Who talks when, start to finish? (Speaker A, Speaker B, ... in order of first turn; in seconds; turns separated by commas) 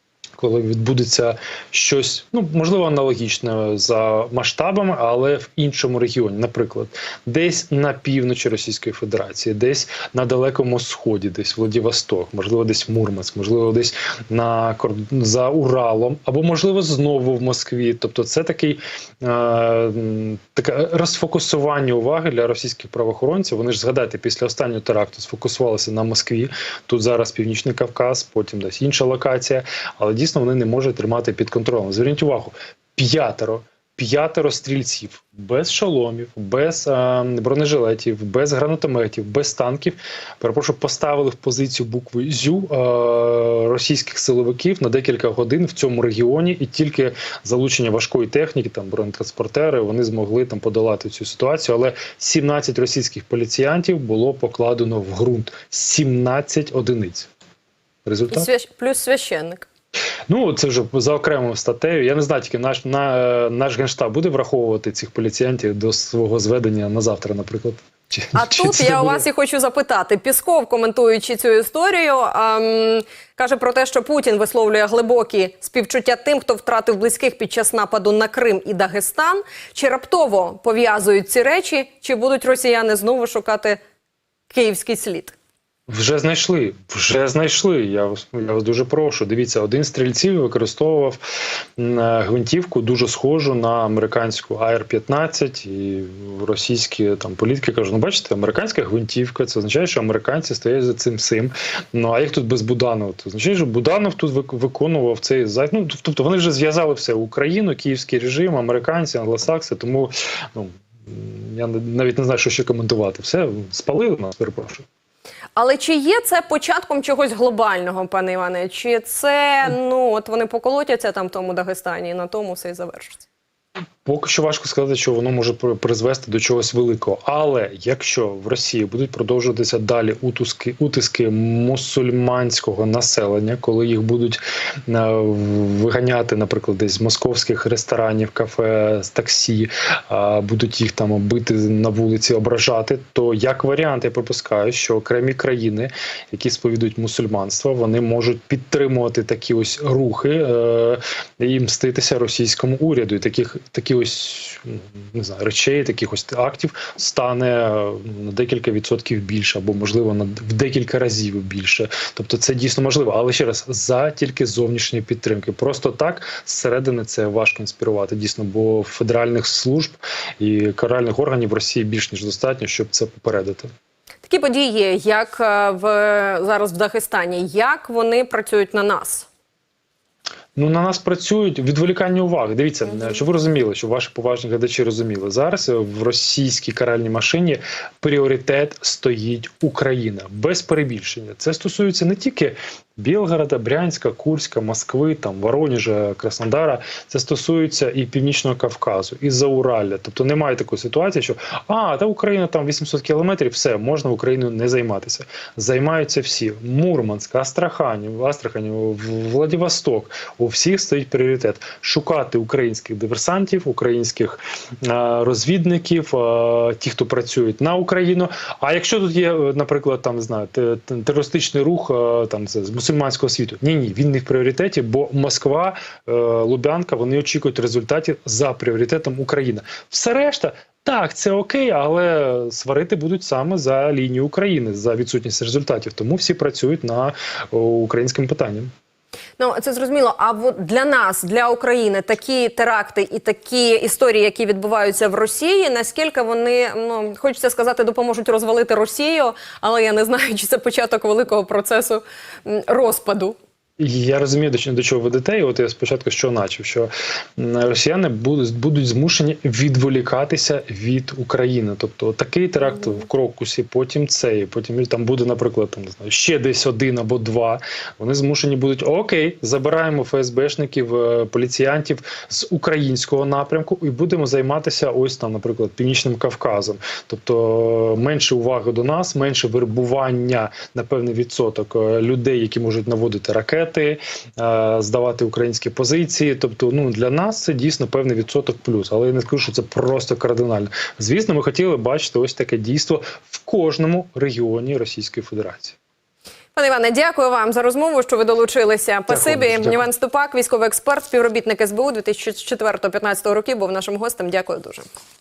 Speaker A: 0.4-57.3, Speaker A: 58.1-58.5, Speaker B: 58.3-59.7, Speaker A: 60.3-69.3, Speaker B: 68.3-83.8, Speaker B: 84.5-85.4, Speaker A: 85.9-91.2, Speaker A: 91.8-114.8, Speaker B: 115.6-123.2, Speaker A: 124.0-173.7, Speaker B: 174.2-179.3, Speaker A: 180.6-238.7, Speaker B: 182.9-183.2, Speaker B: 239.4-253.4, Speaker A: 253.8-295.8, Speaker B: 296.6-304.9, Speaker A: 299.1-299.9